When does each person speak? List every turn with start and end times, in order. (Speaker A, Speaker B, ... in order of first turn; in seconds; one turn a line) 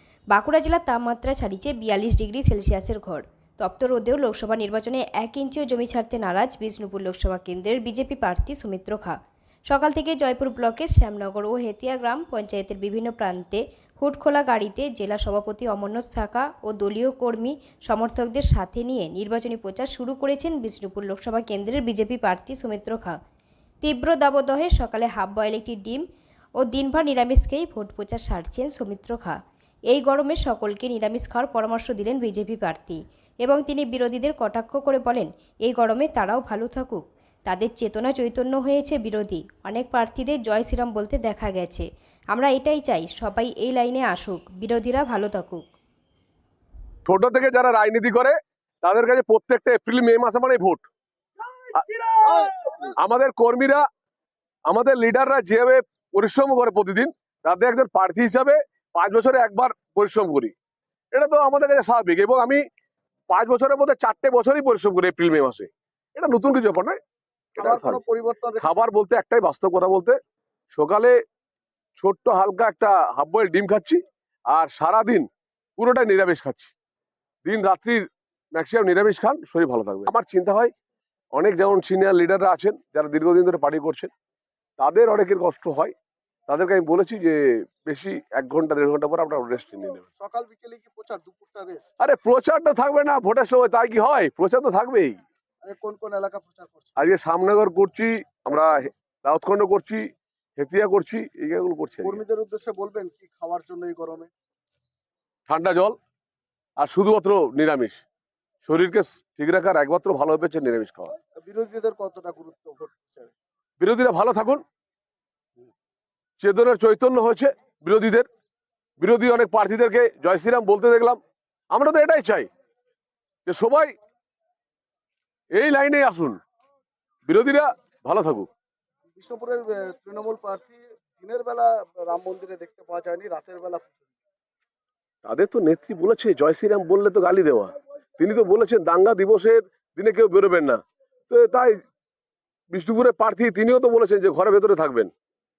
Speaker A: 0.3-23.2
Speaker A: 23.8-26.1
Speaker A: 26.6-29.4
Speaker A: 29.9-45.6
Speaker B: 47.1-50.9
Speaker B: 51.7-53.8
Speaker B: 54.7-60.5
Speaker B: 61.1-62.6
Speaker B: 63.3-67.0
Speaker B: 67.5-68.0
Speaker C: 67.6-68.9
Speaker B: 68.6-70.2
Speaker B: 70.7-71.2
Speaker B: 72.0-76.7
Speaker B: 77.5-80.7
Speaker B: 81.3-84.1
Speaker B: 84.8-85.9
Speaker B: 86.5-90.1
Speaker C: 90.2-91.9
Speaker B: 92.0-95.2
Speaker C: 95.6-97.0
Speaker B: 97.0-102.2
Speaker C: 102.0-104.3
Speaker B: 105.5-106.0
Speaker B: 106.8-108.0
Speaker B: 108.6-111.1
Speaker C: 111.4-113.3
Speaker B: 113.8-114.6
Speaker B: 116.4-118.3
Speaker B: 119.0-121.2
Speaker B: 121.7-122.5
Speaker B: 123.5-123.9
Speaker B: 125.5-126.4
Speaker B: 127.3-128.5
Speaker C: 129.2-134.0
Speaker B: 135.2-141.8
Speaker B: 142.7-145.1